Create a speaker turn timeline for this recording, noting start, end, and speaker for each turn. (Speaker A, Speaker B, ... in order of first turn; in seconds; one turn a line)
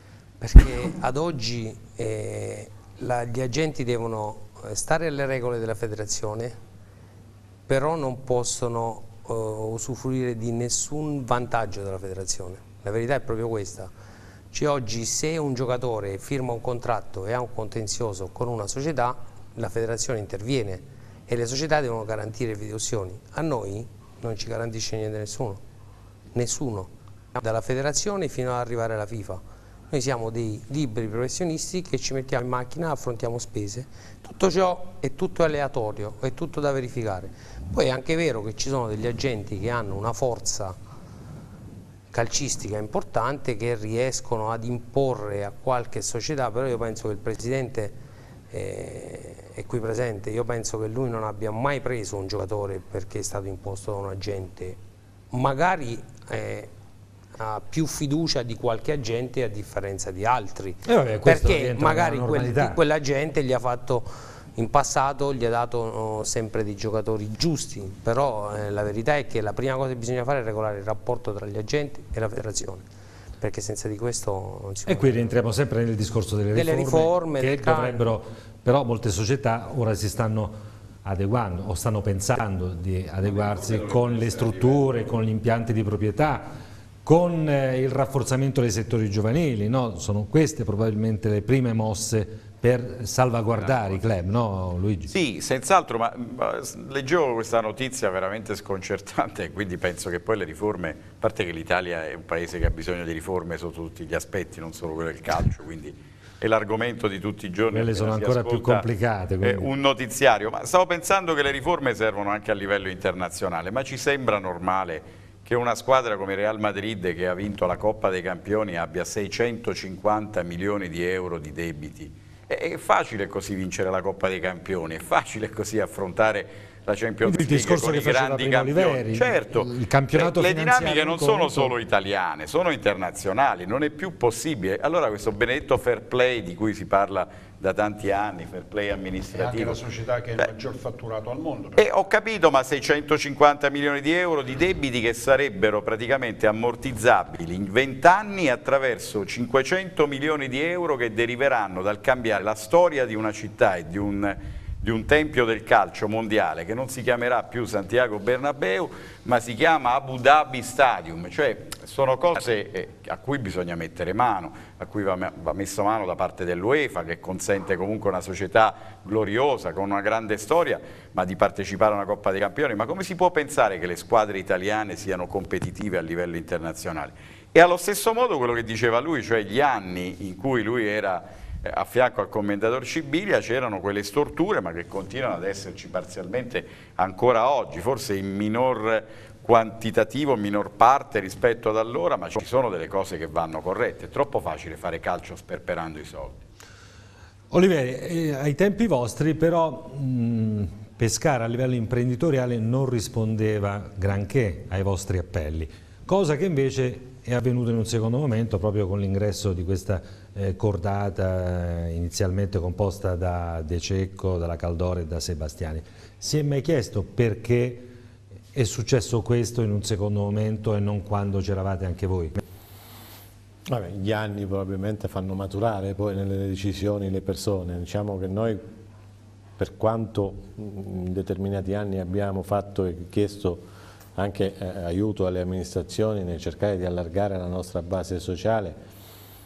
Speaker A: 0.4-6.6
Speaker A: 7.7-13.9
Speaker A: 14.5-25.6
Speaker A: 26.3-40.8
Speaker A: 42.1-48.0
Speaker A: 48.5-54.8
Speaker A: 55.3-56.7
Speaker A: 57.3-72.8
Speaker B: 60.8-62.8
Speaker A: 73.4-75.3
Speaker B: 74.8-86.5
Speaker A: 76.5-78.0
Speaker C: 83.2-85.0
Speaker B: 87.0-95.1
Speaker C: 93.5-94.0
Speaker C: 95.1-108.8
Speaker B: 107.7-109.7
Speaker C: 109.4-139.8
Speaker B: 127.2-131.7
Speaker D: 139.3-141.8
Speaker C: 141.8-196.4
Speaker B: 197.5-217.9
Speaker B: 218.5-222.4
Speaker E: 223.7-228.6
Speaker E: 229.6-233.6
Speaker E: 234.2-238.8